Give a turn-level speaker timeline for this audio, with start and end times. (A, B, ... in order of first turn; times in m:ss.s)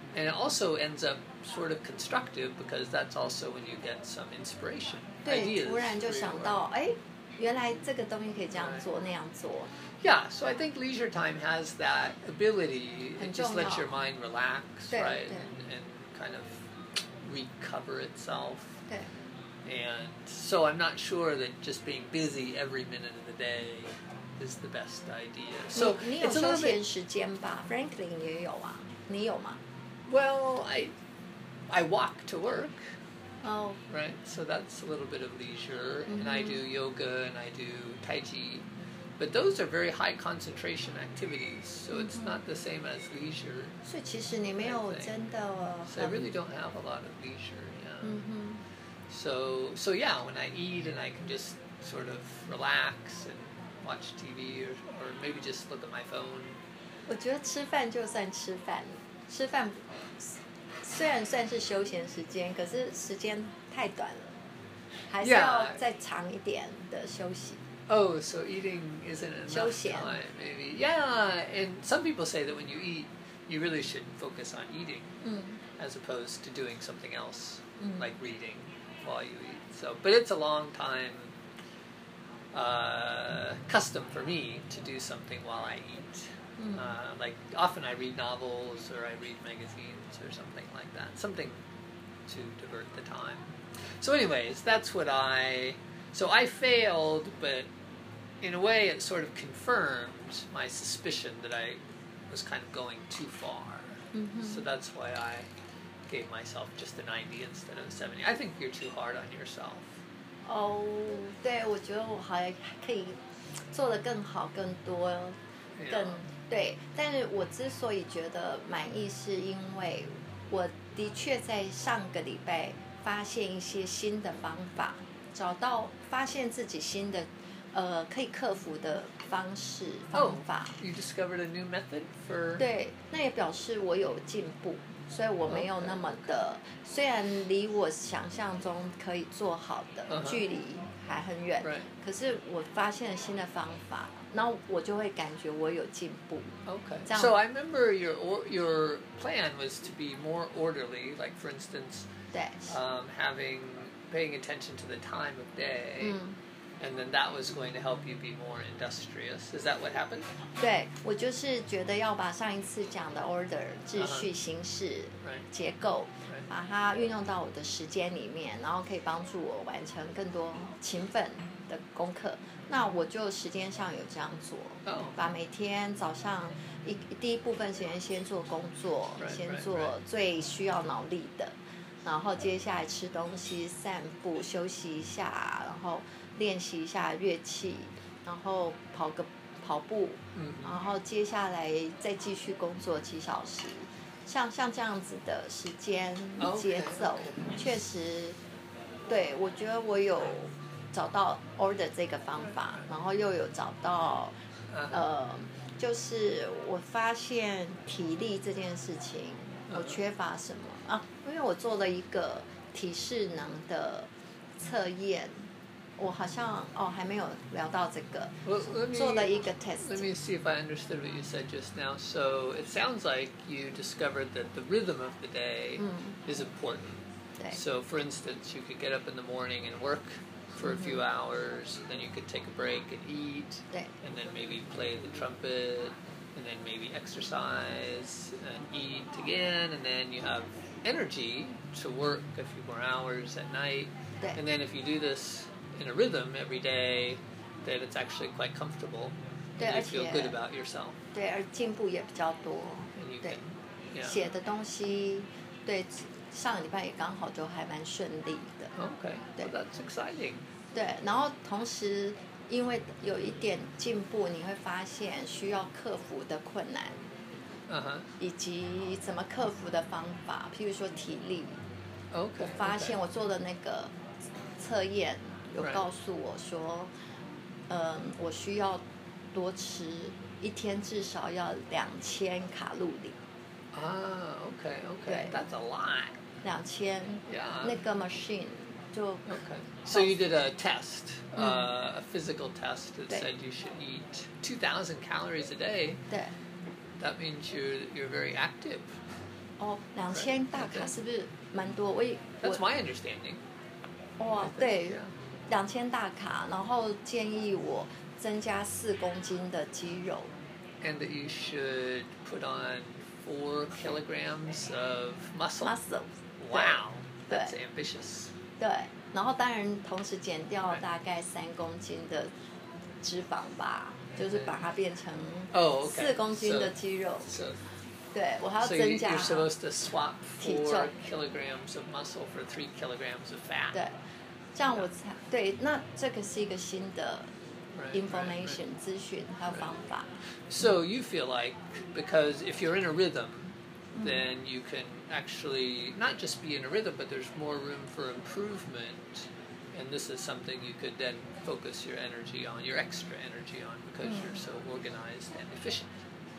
0:00.1-0:06.6 A
0:05.2-0:09.7 B
0:08.5-0:08.8 A
0:10.0-0:18.8 A
0:13.2-0:13.9 B
0:14.9-0:15.5 B
0:19.6-0:26.8 A
0:25.7-0:29.6 B
0:30.1-0:30.9 A
0:31.7-0:32.8 A
0:33.4-0:33.8 B
0:33.9-0:38.7 A
0:36.1-0:36.6 B
0:39.2-0:43.8 A
0:41.9-0:42.4 B
0:43.8-0:46.2 B
0:44.6-0:45.1 A
0:45.9-0:48.2 A
0:48.0-0:48.6 B
0:49.1-0:56.6 A
0:57.1-1:04.4 B
1:05.1-1:07.6 B
1:05.2-1:05.8 A
1:07.9-1:15.1 A
1:09.5-1:10.1 B
1:15.2-1:15.6 B
1:15.8-1:21.3 A
1:17.8-1:18.0 B
1:22.5-1:31.6 A
1:26.6-1:26.9 B
1:32.2-1:37.7 A
1:38.4-1:45.5 A
1:44.1-1:44.6 B
1:46.1-1:49.9 A
1:50.4-1:53.2 B
1:53.7-1:55.4 B
1:55.8-1:56.2 A
1:55.9-2:10.8 B
2:10.1-2:12.6 A
2:12.6-2:27.3 B
2:15.5-2:16.4 A
2:20.1-2:20.4 A
2:21.6-2:21.9 A
2:26.7-2:32.1 A
2:32.3-2:32.8 B
2:32.7-2:36.2 A
2:36.0-2:36.4 B
2:36.8-2:40.3 A
2:40.6-3:18.4 B
2:44.0-2:44.3 A
2:54.8-2:55.2 A
2:59.2-2:59.9 A
3:10.3-3:10.8 A
3:16.4-3:17.7 A
3:19.1-3:24.3 B
3:24.7-3:25.0 A
3:24.9-3:35.5 B
3:29.7-3:30.0 A
3:36.0-3:40.1 B
3:38.4-4:11.0 A
3:45.8-3:46.2 B
3:50.6-3:51.0 B
4:09.6-4:10.4 B
4:11.1-4:13.4 B
4:13.0-4:14.2 A
4:14.0-4:18.7 B
4:18.7-4:20.4 A
4:20.7-4:27.0 B
4:27.7-4:28.1 A
4:28.2-4:31.6 B
4:32.1-4:33.0 A
4:32.4-4:33.9 B
4:34.6-4:36.9 B
4:37.7-4:38.8 B
4:39.3-4:43.2 B
4:43.7-4:46.2 A
4:45.1-4:45.4 B
4:46.4-4:49.4 B
4:47.3-4:47.8 A
4:49.3-4:56.0 A
4:51.4-4:51.7 B
4:57.0-4:58.9 A
4:59.6-5:02.6 B
5:00.1-5:00.9 A
5:02.4-5:03.4 A
5:04.2-5:10.3 B
5:04.4-5:05.1 A
5:10.8-5:15.7 A
5:15.6-5:17.5 B
5:16.4-5:18.3 A
5:18.6-5:22.3 B
5:23.0-5:27.3 B
5:24.2-5:24.5 A
5:25.5-5:27.6 A
5:28.1-5:29.5 B
5:28.6-5:33.8 A
5:30.4-5:30.9 B
5:34.5-5:37.3 B
5:37.7-5:38.6 A
5:37.9-5:40.1 B
5:40.5-5:55.9 A
5:43.9-5:44.2 B
5:54.0-5:54.4 B